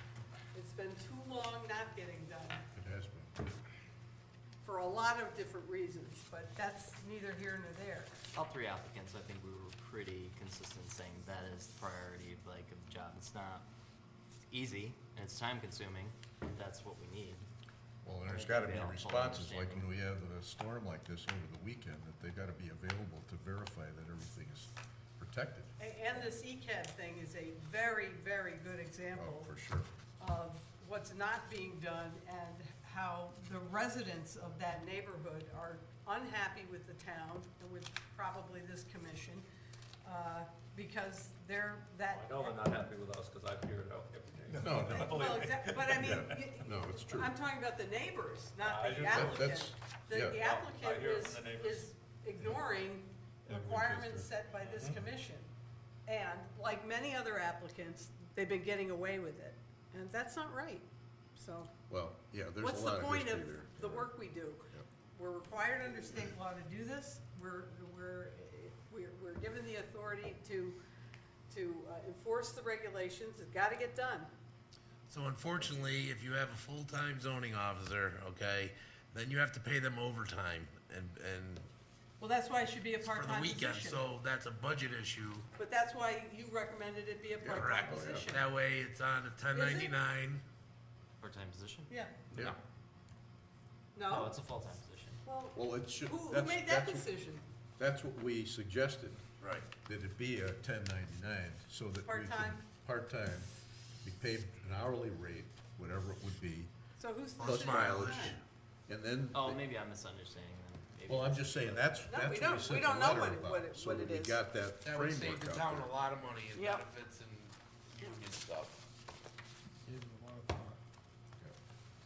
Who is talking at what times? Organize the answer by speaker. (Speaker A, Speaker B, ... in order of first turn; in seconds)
Speaker A: 0.5-2.6, 4.6-8.1, 25.8-29.5, 30.2-39.4, 40.0-42.7, 44.7-55.5, 56.0-61.7, 62.6-70.8, 71.5-74.3, 82.2-84.0, 85.6-88.5, 89.5-89.9, 91.9-92.1, 93.9-94.3, 95.2-97.4, 102.0-102.6, 107.0-108.4, 112.1-114.4, 116.5-116.8
Speaker B: 2.7-3.3, 18.0-25.7, 29.1-29.9, 44.5-47.3, 49.0-50.4, 61.9-64.1, 87.4-88.3, 95.5-97.1, 97.8-99.2, 99.8-103.5, 104.0-106.7, 107.4-108.3, 108.9-109.6, 111.1-115.9
Speaker C: 8.3-13.7, 14.5-17.5, 18.2-19.9, 91.2-91.9, 94.1-95.2, 109.3-111.9
Speaker D: 42.4-46.3, 48.6-49.5, 50.3-51.8
Speaker E: 75.1-81.7, 83.1-85.5, 87.5-90.4, 99.4-99.7, 107.4-108.4, 114.8-118.8